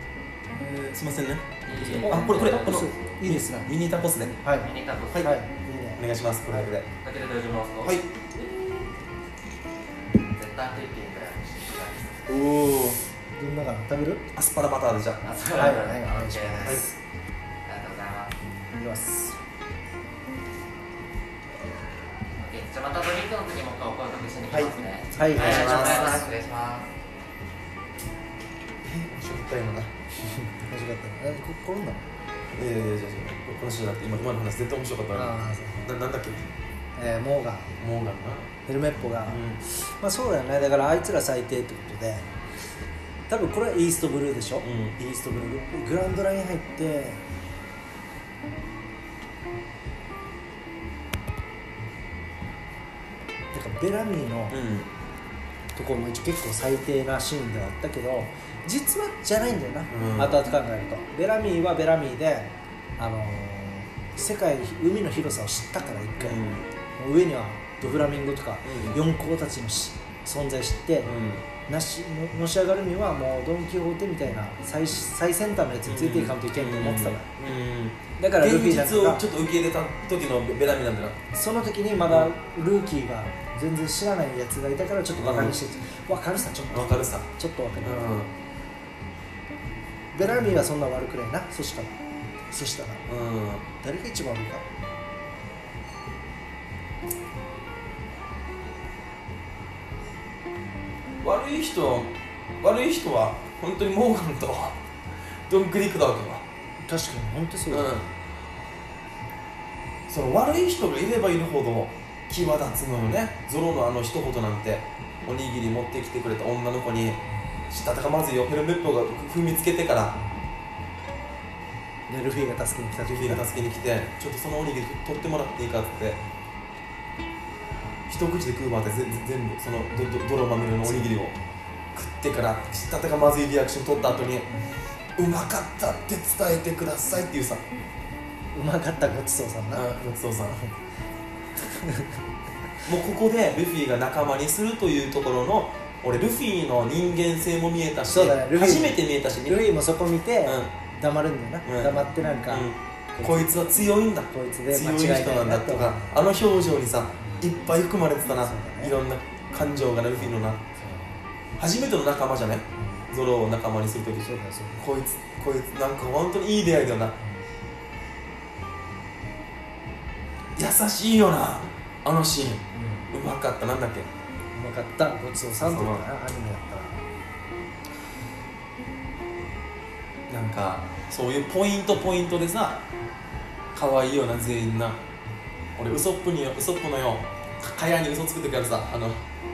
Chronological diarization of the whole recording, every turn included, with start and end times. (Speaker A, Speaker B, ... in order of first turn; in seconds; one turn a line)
Speaker A: 0.5-4.3
Speaker B: 1.6-3.2
Speaker C: 2.0-3.7
Speaker C: 4.4-6.7
Speaker B: 4.6-5.3
Speaker A: 6.0-6.9
Speaker B: 7.0-8.8
Speaker B: 10.1-12.3
Speaker A: 12.3-13.0
Speaker C: 13.4-14.2
Speaker A: 14.3-15.2
Speaker B: 15.2-16.9
Speaker C: 15.5-16.8
Speaker A: 16.6-16.9
Speaker B: 17.6-18.3
Speaker C: 18.7-19.4
Speaker B: 22.4-26.9
Speaker C: 25.1-26.2
Speaker A: 25.3-26.2
Speaker A: 28.8-29.9
Speaker C: 30.3-32.0
Speaker A: 32.5-36.4
Speaker C: 35.1-35.8
Speaker C: 37.0-37.7
Speaker A: 37.8-38.5
Speaker C: 38.6-42.2
Speaker A: 39.3-39.6
Speaker C: 43.3-47.2
Speaker A: 44.6-45.0
Speaker C: 53.5-54.5
Speaker A: 54.5-54.9
Speaker C: 55.8-66.4
Speaker A: 59.9-60.4
Speaker A: 66.2-66.7
Speaker C: 67.0-71.1
Speaker A: 68.6-69.0
Speaker A: 71.0-71.5
Speaker C: 71.7-77.2
Speaker A: 75.8-81.2
Speaker C: 78.2-79.2
Speaker C: 81.3-88.0
Speaker A: 82.0-82.3
Speaker A: 85.2-85.5
Speaker A: 86.7-87.3
Speaker A: 87.8-88.3
Speaker C: 90.1-92.0
Speaker C: 92.5-93.0
Speaker A: 93.1-93.7
Speaker C: 93.8-94.6
Speaker A: 101.2-104.8
Speaker A: 105.5-106.4
Speaker C: 106.8-107.9
Speaker A: 107.7-108.0
Speaker A: 110.1-120.2
Speaker C: 122.1-123.4
Speaker A: 123.1-126.2
Speaker A: 128.1-131.3
Speaker A: 131.9-134.5
Speaker A: 135.2-137.6
Speaker C: 138.5-139.8
Speaker A: 139.7-140.6
Speaker C: 141.7-142.1
Speaker A: 142.8-149.7
Speaker C: 148.1-153.7
Speaker A: 150.4-150.7
Speaker A: 151.7-160.6
Speaker C: 154.3-156.2
Speaker C: 158.3-158.9
Speaker C: 160.8-161.2
Speaker A: 161.6-167.2
Speaker C: 164.2-164.8
Speaker A: 170.6-174.1
Speaker C: 172.7-173.1
Speaker C: 174.5-177.0
Speaker A: 175.6-176.0
Speaker A: 180.3-182.8
Speaker A: 183.7-185.0
Speaker A: 185.8-189.2